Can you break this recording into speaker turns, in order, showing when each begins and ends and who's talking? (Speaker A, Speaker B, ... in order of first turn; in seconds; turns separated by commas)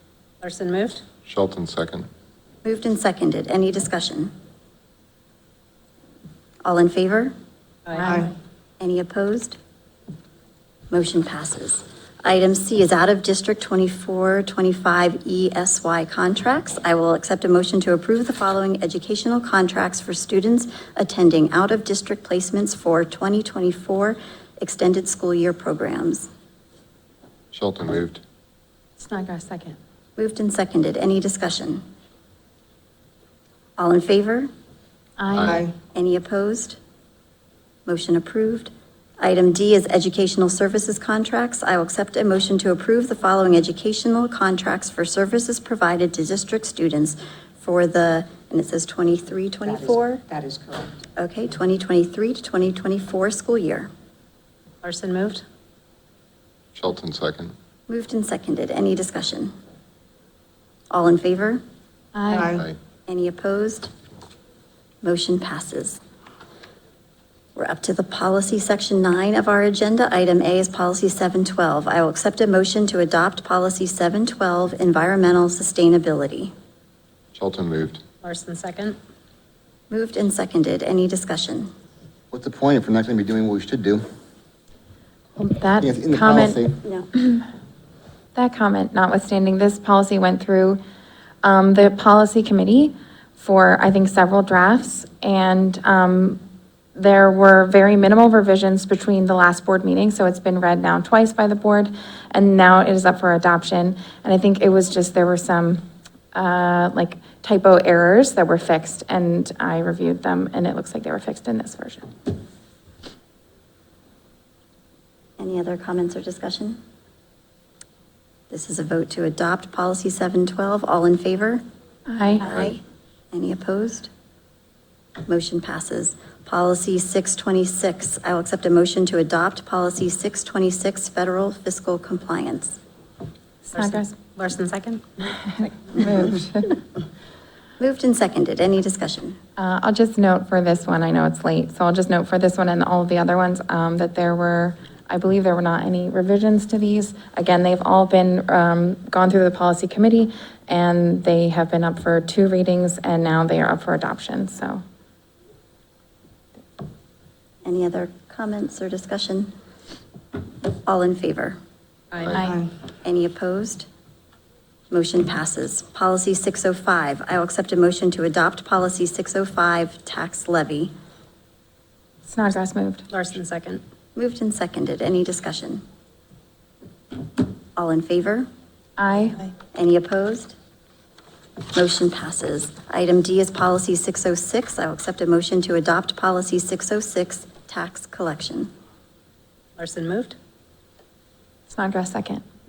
Speaker A: 0.4-1.0, Speaker B: 1.2-2.0, Speaker C: 2.6-4.3, Speaker C: 6.6-7.3, Speaker A: 7.9-8.2, Speaker D: 8.0-8.3, Speaker C: 8.8-9.6, Speaker C: 10.9-26.3, Speaker B: 27.5-28.2, Speaker E: 29.0-29.8, Speaker C: 30.2-31.8, Speaker C: 33.8-34.5, Speaker E: 35.2-35.6, Speaker B: 35.3-35.7, Speaker D: 35.5-35.7, Speaker C: 35.9-36.8, Speaker C: 37.9-50.2, Speaker D: 49.7-50.9, Speaker C: 51.1-53.9, Speaker A: 54.8-55.4, Speaker B: 56.7-57.5, Speaker C: 57.9-59.5, Speaker C: 60.9-61.6, Speaker E: 62.1-62.5, Speaker D: 62.3-62.6, Speaker C: 63.1-63.9, Speaker C: 65.0-66.0, Speaker C: 67.5-76.5, Speaker B: 77.3-78.0, Speaker A: 78.2-79.0, Speaker C: 79.9-81.7, Speaker F: 82.3-84.0, Speaker E: 85.4-87.5, Speaker F: 85.8-86.7, Speaker E: 88.3-90.8, Speaker E: 91.4-96.4, Speaker E: 96.9-105.8, Speaker E: 106.3-112.1, Speaker C: 115.4-116.8, Speaker C: 118.5-121.6, Speaker E: 122.1-122.5, Speaker C: 122.4-122.8, Speaker C: 123.3-124.1, Speaker C: 125.2-132.8, Speaker A: 133.7-135.2, Speaker E: 133.7-134.1, Speaker E: 135.3-136.8, Speaker C: 137.8-139.4, Speaker E: 139.6-154.8, Speaker C: 157.6-159.5, Speaker C: 160.8-161.6, Speaker A: 162.1-162.4, Speaker E: 162.3-162.6, Speaker D: 162.4-162.7, Speaker C: 163.0-163.9, Speaker C: 164.9-170.9, Speaker E: 172.3-173.0, Speaker A: 173.1-173.8, Speaker C: 174.2-175.8, Speaker C: 177.8-178.5, Speaker E: 179.0-179.5, Speaker C: 179.7-180.5, Speaker C: 181.7-188.7, Speaker A: 189.8-190.3, Speaker E: 191.7-192.4